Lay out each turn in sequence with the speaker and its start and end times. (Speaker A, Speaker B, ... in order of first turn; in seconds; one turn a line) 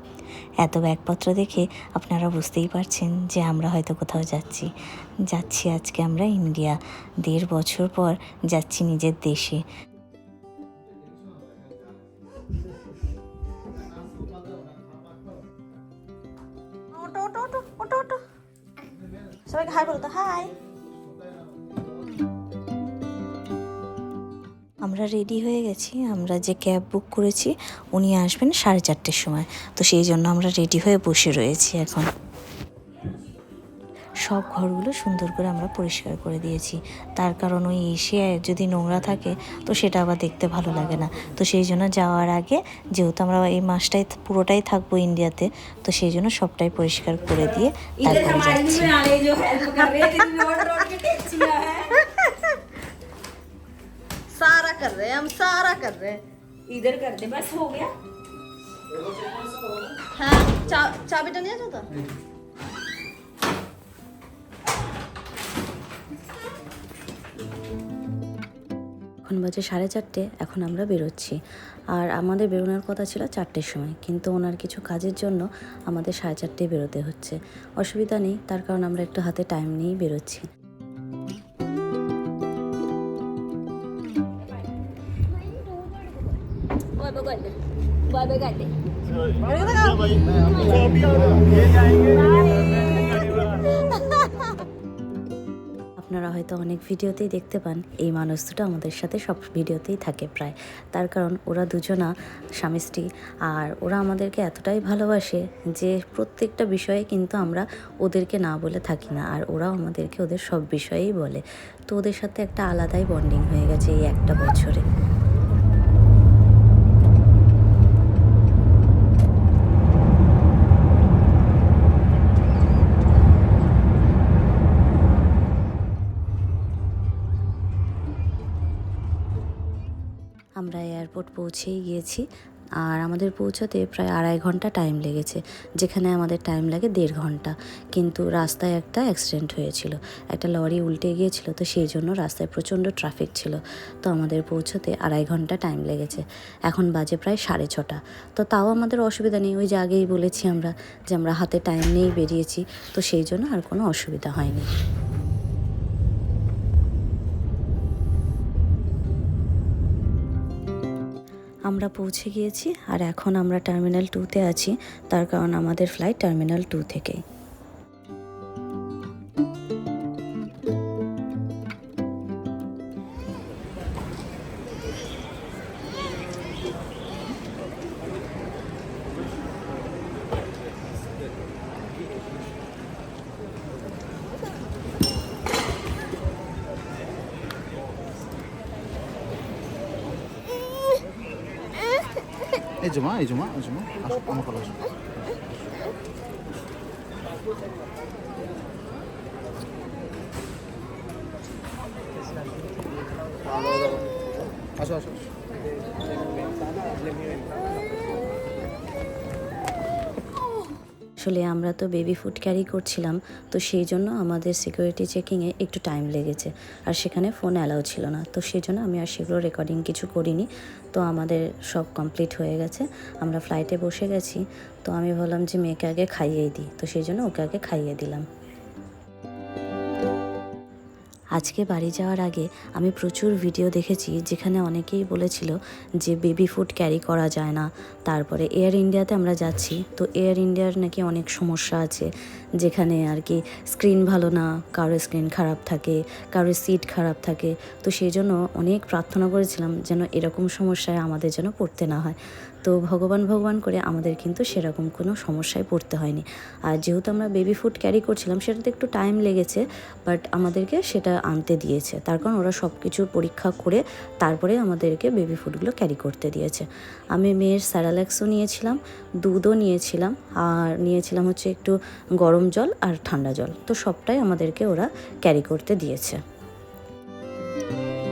Speaker A: 0.6-4.7
Speaker A: 5.3-9.6
Speaker B: 16.9-18.2
Speaker B: 19.5-20.5
Speaker A: 24.8-32.1
Speaker A: 34.2-49.0
Speaker C: 48.0-52.0
Speaker B: 49.8-50.2
Speaker B: 52.0-52.6
Speaker B: 54.3-56.2
Speaker C: 56.7-57.9
Speaker B: 60.1-61.9
Speaker A: 69.3-71.4
Speaker A: 71.9-80.5
Speaker C: 87.0-87.5
Speaker C: 88.1-88.7
Speaker B: 89.4-90.3
Speaker C: 90.5-90.9
Speaker C: 91.9-93.6
Speaker A: 96.0-114.8
Speaker A: 130.6-132.2
Speaker A: 132.8-154.7
Speaker A: 161.7-167.2
Speaker D: 192.8-194.9
Speaker D: 203.5-204.0
Speaker D: 204.8-205.1
Speaker A: 211.2-228.3
Speaker A: 231.4-242.1
Speaker A: 242.6-276.2